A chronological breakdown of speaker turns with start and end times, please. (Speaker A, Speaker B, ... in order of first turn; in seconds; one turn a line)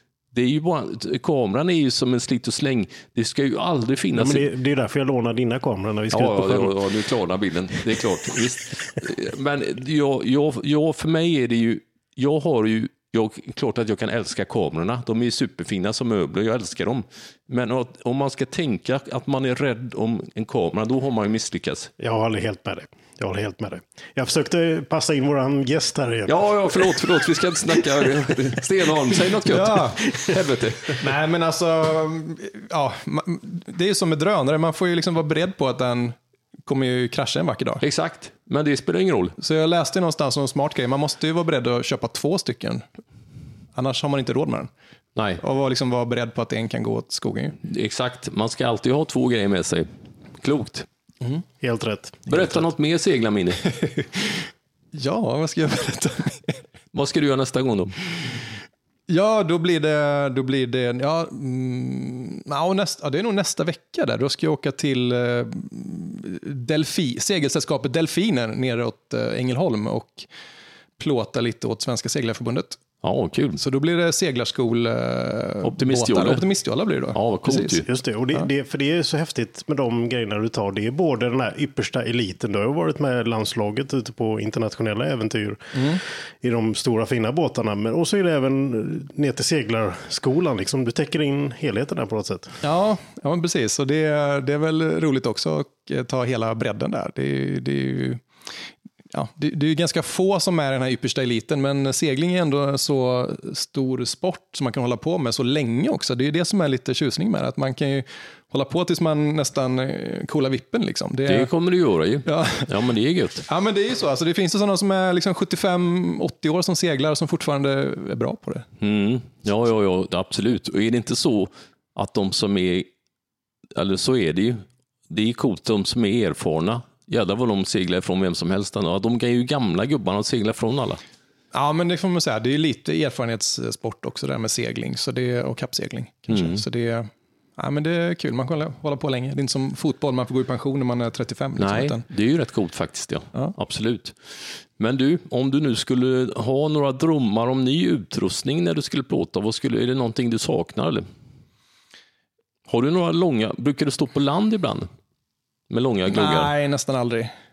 Speaker A: 0.3-4.5
Speaker B: 4.1-6.8
Speaker A: 6.1-21.9
Speaker B: 22.0-27.0
Speaker A: 26.3-31.0
Speaker C: 29.5-30.0
Speaker C: 31.0-37.8
Speaker A: 37.8-39.4
Speaker C: 39.4-42.8
Speaker C: 43.7-44.7
Speaker A: 45.1-45.4
Speaker C: 45.4-47.6
Speaker A: 47.6-49.9
Speaker A: 50.4-50.9
Speaker B: 51.6-52.6
Speaker A: 52.3-53.6
Speaker C: 53.8-56.6
Speaker A: 56.9-58.0
Speaker C: 59.1-70.3
Speaker C: 71.0-72.8
Speaker A: 73.0-73.6
Speaker C: 73.6-77.8
Speaker A: 75.6-76.4
Speaker A: 77.1-77.9
Speaker B: 77.8-85.7
Speaker C: 85.7-86.0
Speaker B: 86.4-92.6
Speaker C: 92.6-98.2
Speaker C: 99.1-111.5
Speaker A: 111.3-113.4
Speaker C: 112.2-112.7
Speaker C: 113.5-118.7
Speaker A: 118.8-122.9
Speaker A: 123.7-131.0
Speaker C: 131.5-142.0
Speaker A: 136.3-136.6
Speaker A: 141.6-151.1
Speaker A: 152.7-154.9
Speaker A: 155.7-156.5
Speaker C: 156.1-157.3